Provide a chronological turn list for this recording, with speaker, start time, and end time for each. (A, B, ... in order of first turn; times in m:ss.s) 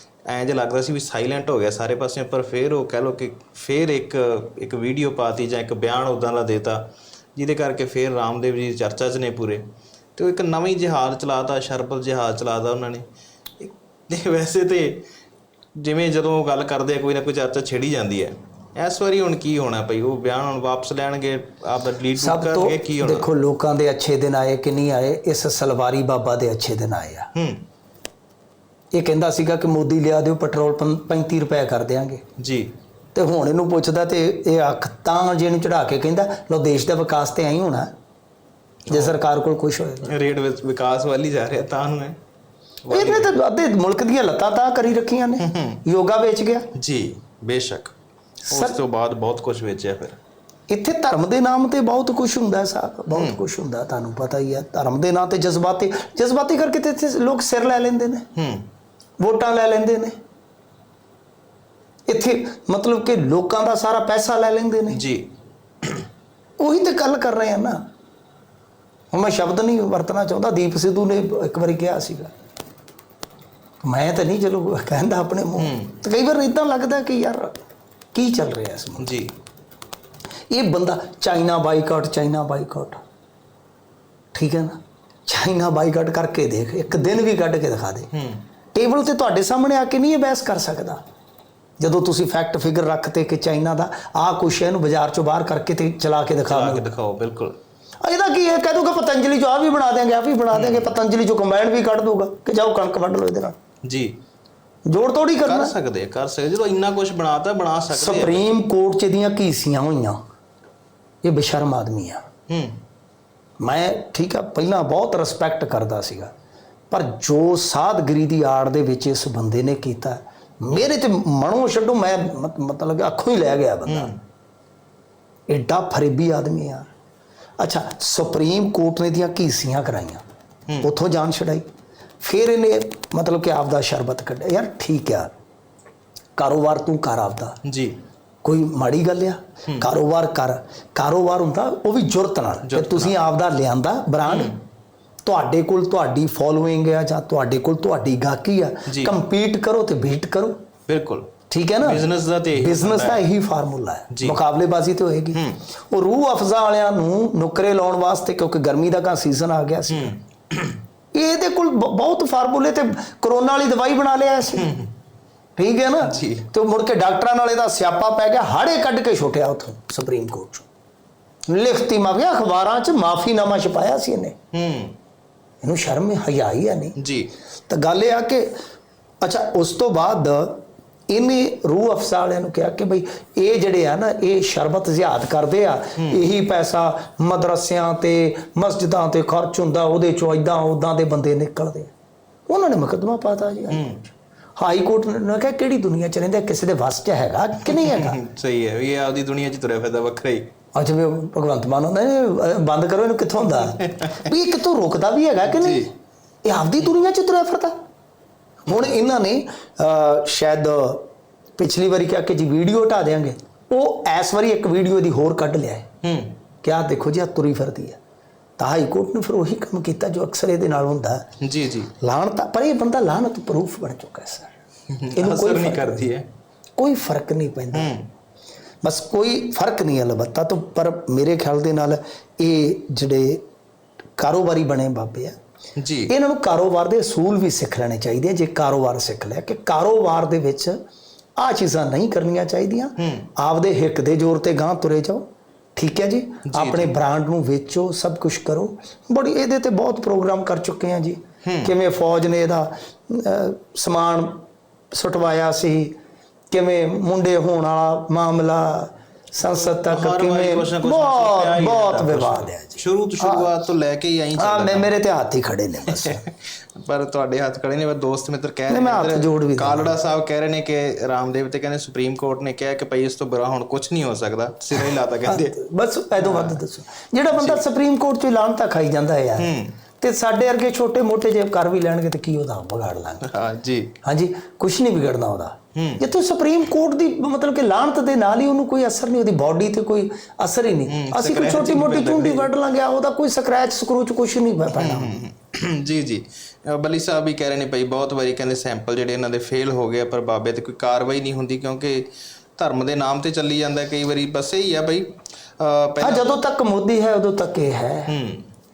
0:00.3-0:13.0 A
0:13.6-0:15.0 A
0:15.8-0:23.3 A
0:22.2-0:27.3 B
0:27.3-0:27.6 A
0:28.9-0:32.2 B
0:32.4-0:32.7 A
0:33.2-0:37.9 B
0:38.9-0:39.2 A
0:38.9-0:40.2 B
0:40.0-0:42.2 A
0:42.8-0:43.3 A
0:42.9-0:46.7 B
0:45.4-0:45.8 A
0:46.8-0:48.0 A
0:48.5-0:50.2 A
0:48.5-0:48.8 B
0:50.7-0:58.3 B
0:53.1-0:53.4 A
0:58.4-0:58.7 A
0:59.2-1:00.2 B
1:02.1-1:05.0 B
1:04.9-1:06.0 A
1:06.6-1:07.8 B
1:09.1-1:12.3 B
1:13.8-1:19.2 B
1:15.6-1:16.0 A
1:19.0-1:19.3 A
1:20.5-1:23.0 B
1:24.3-1:28.1 B
1:28.1-1:28.4 A
1:28.7-1:31.0 B
1:31.8-1:36.9 B
1:36.5-1:37.6 A
1:38.0-1:43.6 B
1:40.5-1:41.0 A
1:43.8-1:44.2 A
1:44.9-1:45.8 B
1:45.4-1:48.5 A
1:47.9-1:50.2 B
1:51.2-1:52.2 B
1:52.5-1:52.8 A
1:53.6-1:56.3 B
1:56.9-2:04.1 B
2:03.9-2:04.2 A
2:05.5-2:06.9 B
2:07.6-2:10.2 B
2:10.8-2:11.6 B
2:12.2-2:15.3 B
2:16.4-2:17.6 B
2:17.6-2:18.0 A
2:18.4-2:24.5 B
2:22.6-2:23.2 A
2:24.3-2:24.6 A
2:25.2-2:30.6 B
2:28.9-2:29.2 A
2:30.9-2:33.3 A
2:31.5-2:40.2 B
2:34.1-2:34.4 A
2:35.3-2:35.6 A
2:39.9-2:40.8 A
2:41.1-2:44.7 B
2:44.6-2:44.9 A
2:45.6-2:50.7 B
2:46.0-2:46.5 A
2:51.5-2:54.4 B
2:54.5-2:55.0 A
2:55.6-2:57.0 B
2:57.0-2:57.3 A
2:57.7-2:58.6 B
2:59.2-3:11.9 B
3:12.5-3:13.9 B
3:13.7-3:14.1 A
3:14.6-3:18.2 B
3:17.6-3:20.5 A
3:20.7-3:25.9 B
3:23.9-3:24.3 A
3:25.5-3:25.9 A
3:26.4-3:27.8 B
3:28.7-3:35.9 B
3:36.0-3:36.4 A
3:36.6-3:38.0 B
3:38.6-3:41.3 B
3:41.4-3:41.9 A
3:42.0-3:44.5 B
3:44.9-3:46.3 A
3:45.2-3:46.1 B
3:46.8-3:48.0 B
3:47.7-3:48.1 A
3:48.8-3:53.4 B
3:54.2-3:55.4 B
3:55.8-3:56.1 A
3:56.1-4:00.8 B
4:01.4-4:05.2 B
4:03.0-4:03.3 A
4:05.8-4:16.0 B
4:06.5-4:07.0 A
4:11.4-4:11.7 A
4:16.5-4:23.5 B
4:19.4-4:24.9 A
4:24.4-4:26.2 B
4:25.9-4:35.6 A
4:28.7-4:30.0 B
4:34.8-4:43.3 B
4:36.2-4:36.6 A
4:37.3-4:37.6 A
4:39.4-4:39.8 A
4:43.2-4:44.0 A
4:44.0-4:55.2 B
4:45.8-4:46.0 A
4:50.9-4:52.5 A
4:54.7-5:06.3 A
5:06.0-5:08.2 B
5:08.1-5:08.5 A